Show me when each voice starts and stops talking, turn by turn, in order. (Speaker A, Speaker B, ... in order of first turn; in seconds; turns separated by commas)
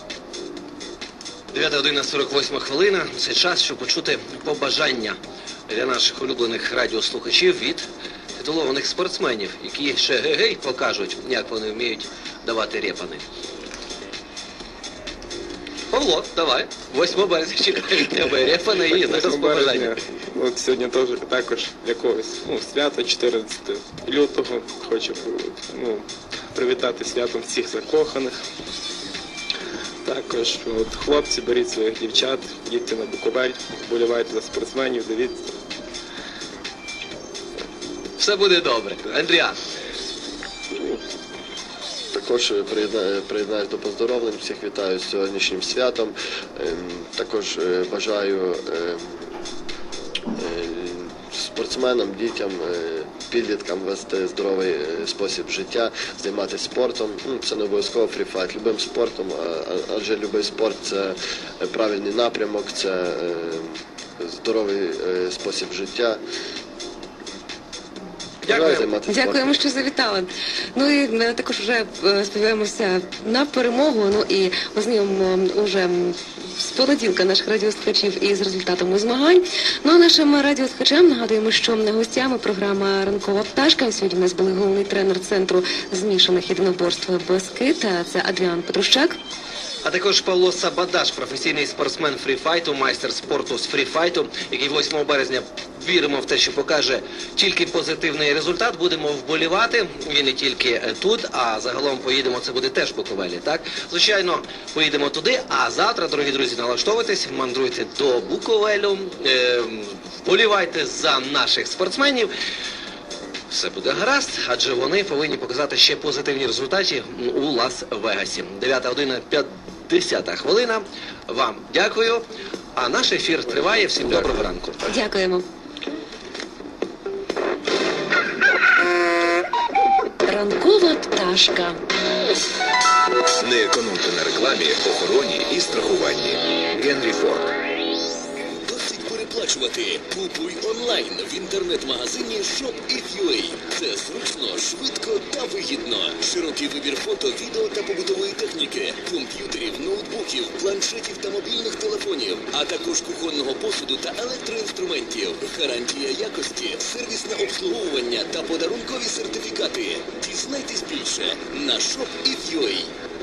Speaker A: 1.5-5.2, Speaker A: 5.7-13.2, Speaker A: 15.9-20.0, Speaker B: 18.9-28.3, Speaker B: 30.0-35.5, Speaker A: 38.2-39.6, Speaker C: 42.1-49.3, Speaker C: 50.3-66.2, Speaker A: 68.4-68.9, Speaker C: 68.5-69.6, Speaker D: 69.1-89.2, Speaker A: 89.8-112.3, Speaker A: 113.5-122.2, Speaker A: 122.8-124.8, Speaker D: 124.8-125.4, Speaker D: 130.3-131.8, Speaker E: 133.4-137.5, Speaker F: 138.7-162.9